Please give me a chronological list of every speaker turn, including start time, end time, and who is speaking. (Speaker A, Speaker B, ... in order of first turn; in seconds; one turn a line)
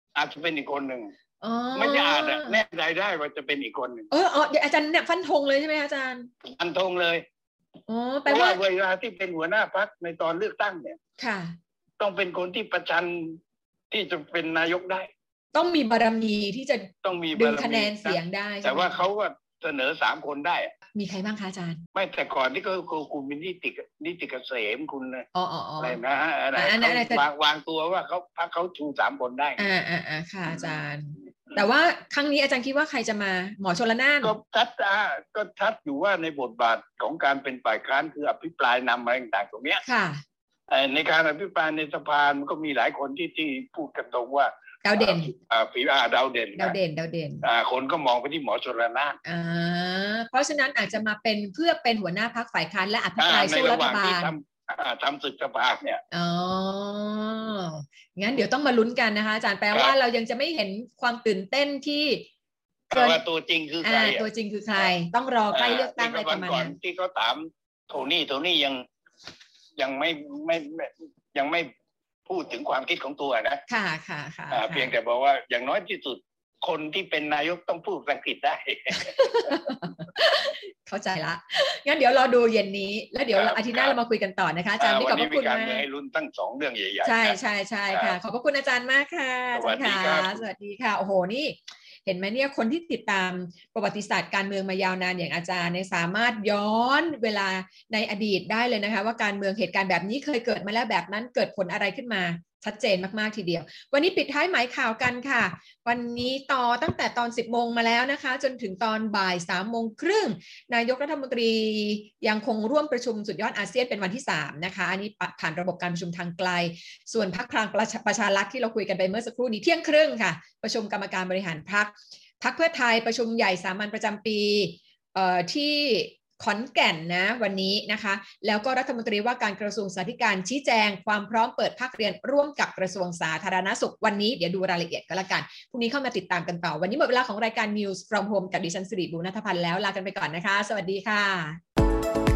Speaker A: 0.1-1.1
Speaker B: 1.4-2.6
Speaker A: 1.7-4.1
Speaker B: 4.1-6.3
Speaker A: 6.4-7.2
Speaker B: 7.9-8.6
Speaker A: 8.3-11.0
Speaker B: 11.2-11.6
Speaker A: 12.0-13.4
Speaker A: 13.9-15.1
Speaker B: 15.5-19.0
Speaker A: 17.0-20.7
Speaker B: 20.9-21.8
Speaker A: 21.9-25.3
Speaker B: 25.3-26.0
Speaker A: 25.8-29.7
Speaker B: 26.5-27.2
Speaker B: 29.6-34.3
Speaker A: 34.2-39.8
Speaker B: 39.8-40.2
Speaker A: 40.7-46.8
Speaker B: 44.8-45.3
Speaker B: 46.6-47.4
Speaker A: 47.4-49.2
Speaker B: 49.2-54.3
Speaker A: 53.2-56.0
Speaker B: 56.1-62.3
Speaker A: 62.9-64.2
Speaker B: 62.9-63.2
Speaker B: 63.8-66.8
Speaker A: 65.5-68.8
Speaker A: 69.8-71.7
Speaker A: 72.3-73.6
Speaker B: 73.7-74.9
Speaker A: 74.5-79.5
Speaker B: 79.0-85.8
Speaker A: 83.3-83.9
Speaker A: 84.8-87.4
Speaker B: 87.0-141.6
Speaker A: 87.9-88.2
Speaker A: 89.5-90.4